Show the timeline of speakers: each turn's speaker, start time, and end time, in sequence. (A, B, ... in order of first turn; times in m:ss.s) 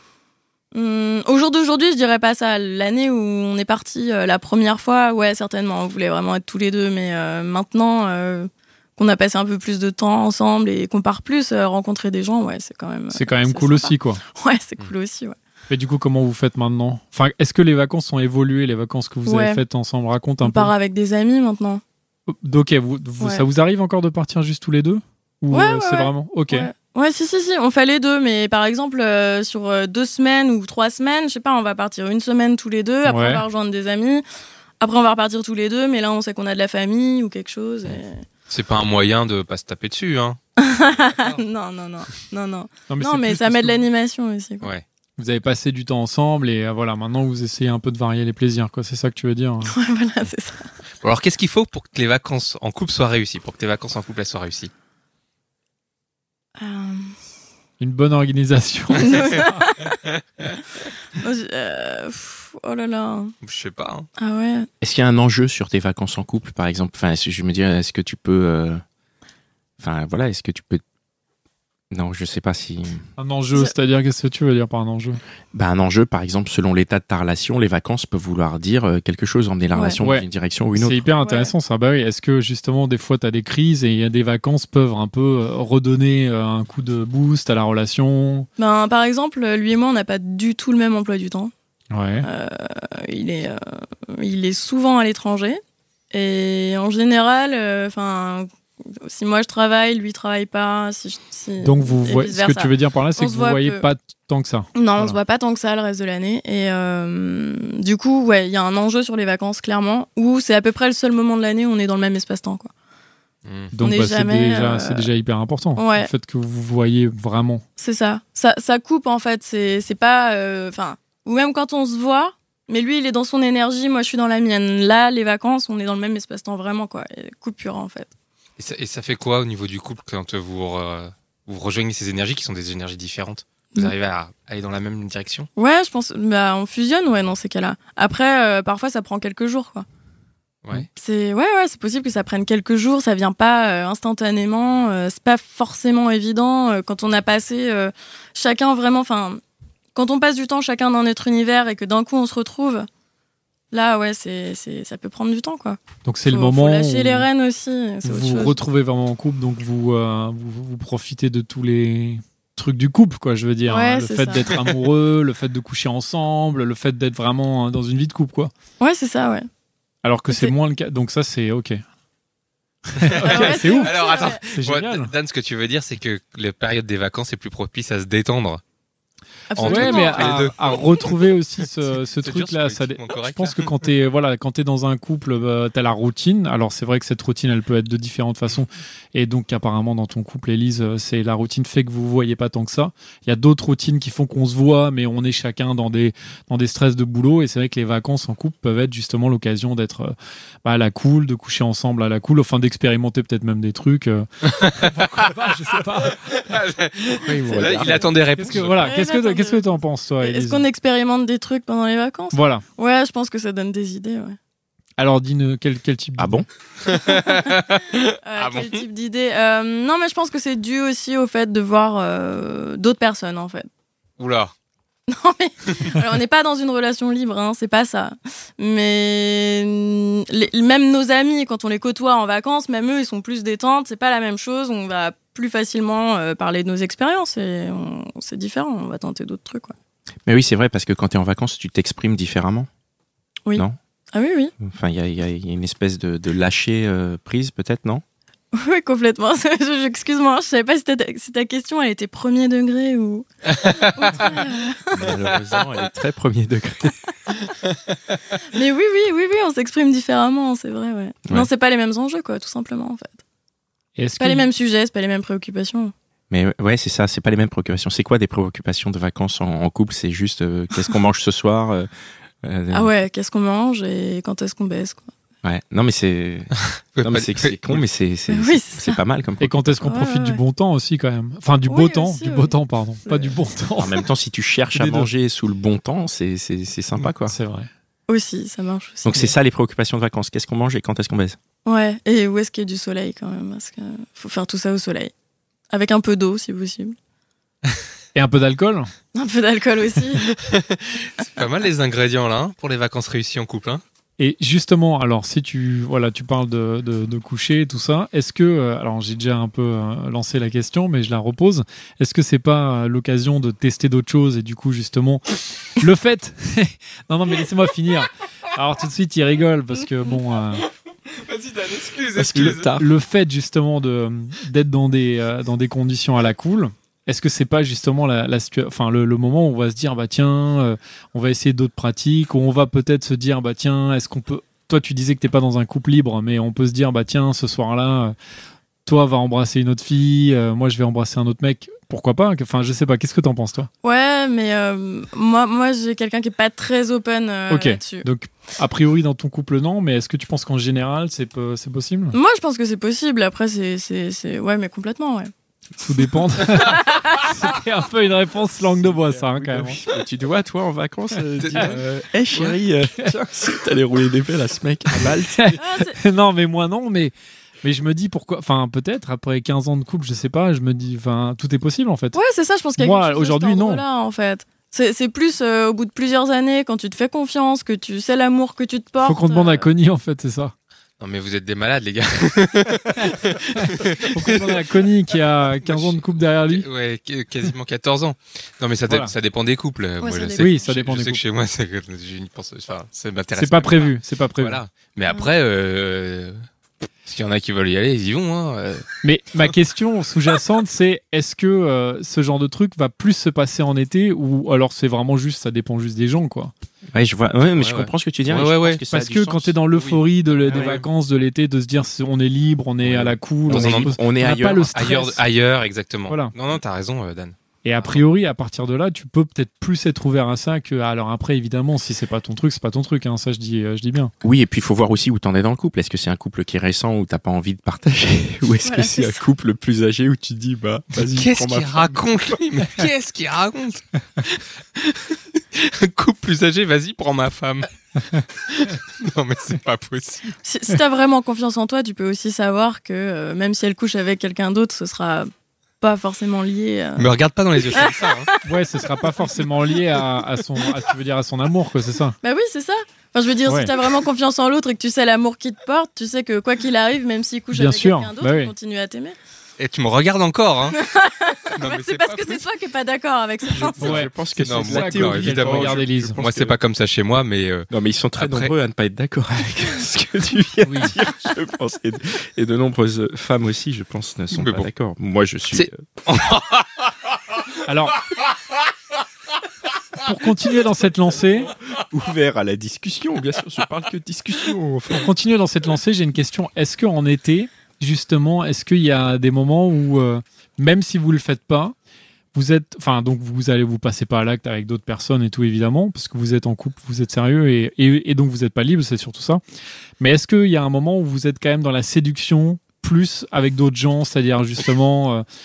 0:00.7-0:15.4 A
0:13.1-0:14.2 B
0:15.7-0:20.7 B
0:19.3-0:19.6 A
0:20.4-0:21.8 A
0:22.3-0:26.7 B
0:25.5-0:34.2 A
0:33.0-0:33.4 B
0:34.8-0:38.2 A
0:38.5-0:40.4 C
0:40.6-0:44.7 A
0:41.1-0:41.4 C
0:42.9-0:43.8 B
0:45.2-0:49.7 B
0:49.7-0:50.7 A
0:51.0-0:54.7 C
0:56.6-0:57.1 A
0:57.8-0:59.6 B
0:59.0-1:00.0 A
1:01.1-1:03.3 A
1:03.4-1:04.1 C
1:04.2-1:04.7 A
1:04.8-1:08.8 D
1:09.8-1:10.8 D
1:11.9-1:13.0 D
1:13.2-1:15.2 B
1:15.5-1:21.0 D
1:19.7-1:20.0 A
1:20.0-1:28.5 B
1:21.2-1:21.5 A
1:28.6-1:31.5 A
1:31.9-1:32.3 B
1:32.2-1:35.6 A
1:36.1-1:38.5 A
1:39.0-1:43.8 A
1:41.6-1:45.2 B
1:44.8-1:52.7 A
1:53.4-1:53.7 C
1:53.7-1:57.6 B
1:53.8-1:55.1 A
1:55.8-1:56.1 A
1:57.8-2:08.1 A
2:08.6-2:15.5 C
2:15.6-2:19.9 A
2:21.0-2:29.4 A
2:30.0-2:32.9 A
2:33.7-2:38.6 A
2:36.0-2:37.3 B
2:38.0-2:48.5 B
2:43.7-2:44.6 A
2:48.8-2:49.5 A
2:50.0-2:51.8 B
2:52.9-2:55.1 B
2:53.0-2:58.6 C
2:53.2-2:54.4 A
2:59.5-3:00.3 A
2:59.5-3:01.3 C
2:59.6-3:26.5 B
3:02.0-3:03.8 C
3:24.5-3:25.0 C
3:26.2-3:28.9 C
3:27.2-3:28.0 D
3:27.4-3:30.6 B
3:27.5-3:28.0 A
3:28.7-3:29.6 A
3:30.2-3:34.4 A
3:32.3-3:32.6 B
3:35.0-3:36.4 B
3:36.2-3:36.5 D
3:36.8-3:38.8 C
3:37.0-3:37.6 A
3:38.2-3:43.7 A
3:44.2-3:44.5 C
3:45.1-3:59.7 A
4:00.3-4:02.7 D
4:03.5-4:04.5 A
4:04.6-4:08.0 D
4:08.5-4:15.1 A
4:13.5-4:14.1 C
4:14.9-4:17.0 D
4:18.5-4:23.2 A
4:24.0-4:24.5 B
4:24.2-4:25.9 A
4:26.3-4:31.9 D
4:32.4-4:32.9 D
4:32.7-4:35.1 A
4:35.4-4:39.7 D
4:37.0-4:37.8 C
4:38.3-4:39.0 A
4:39.4-4:44.0 B
4:39.8-4:40.4 A
4:41.7-4:42.6 A
4:43.8-4:47.4 D
4:44.7-4:45.1 B
4:47.3-4:47.7 B
4:48.1-4:49.3 A
4:49.0-4:51.4 D
4:51.6-4:55.1 A
4:55.7-4:57.0 A
4:58.2-4:58.9 B
4:59.1-5:00.4 A
5:00.4-5:03.8 C
5:04.2-5:20.7 B
5:21.1-5:22.7 C
5:22.2-5:22.9 D
5:22.6-5:38.2 B
5:38.9-5:43.7 B
5:43.8-5:48.1 A
5:47.5-5:52.2 B
5:52.1-5:55.3 A
5:55.8-5:59.8 B
5:56.6-5:57.2 A
5:58.8-6:05.6 D
6:01.4-6:01.8 C
6:05.3-6:12.2 B
6:05.6-6:06.0 A
6:12.1-6:19.7 A
6:12.8-6:13.8 B
6:19.0-6:20.5 B
6:21.0-6:24.6 C
6:23.0-6:26.7 B
6:25.6-6:36.4 C
6:28.9-6:29.1 B
6:30.0-6:30.6 A
6:30.4-6:31.2 B
6:33.4-6:34.6 B
6:37.0-6:38.9 C
6:39.0-6:46.5 B
6:46.9-6:49.6 D
6:47.5-6:48.8 C
6:48.9-6:55.2 B
6:49.7-6:50.8 C
6:50.5-6:50.8 D
6:52.8-6:54.8 D
6:53.5-6:54.0 C
6:54.7-6:58.0 C
6:57.6-7:04.1 B
7:04.2-7:12.4 D
7:08.6-7:09.2 A
7:11.0-7:17.7 C
7:18.3-7:20.4 C
7:20.4-7:27.1 A
7:27.0-7:28.3 C
7:27.6-7:30.1 A
7:28.4-7:32.2 B
7:32.2-7:39.2 A
7:33.5-7:33.7 B
7:37.5-7:38.5 B
7:39.6-7:40.8 C
7:40.7-7:44.1 A
7:41.5-7:42.4 C
7:43.5-7:46.6 D
7:43.8-7:46.2 B
7:44.4-7:48.5 C
7:47.7-7:55.8 D
7:50.6-7:51.0 B
7:54.3-7:54.7 C
7:55.5-7:56.9 C
7:57.7-7:58.0 B
8:00.0-8:01.5 B
8:01.7-8:05.1 D
8:04.9-8:11.8 B
8:12.3-8:19.4 B
8:20.0-8:25.2 B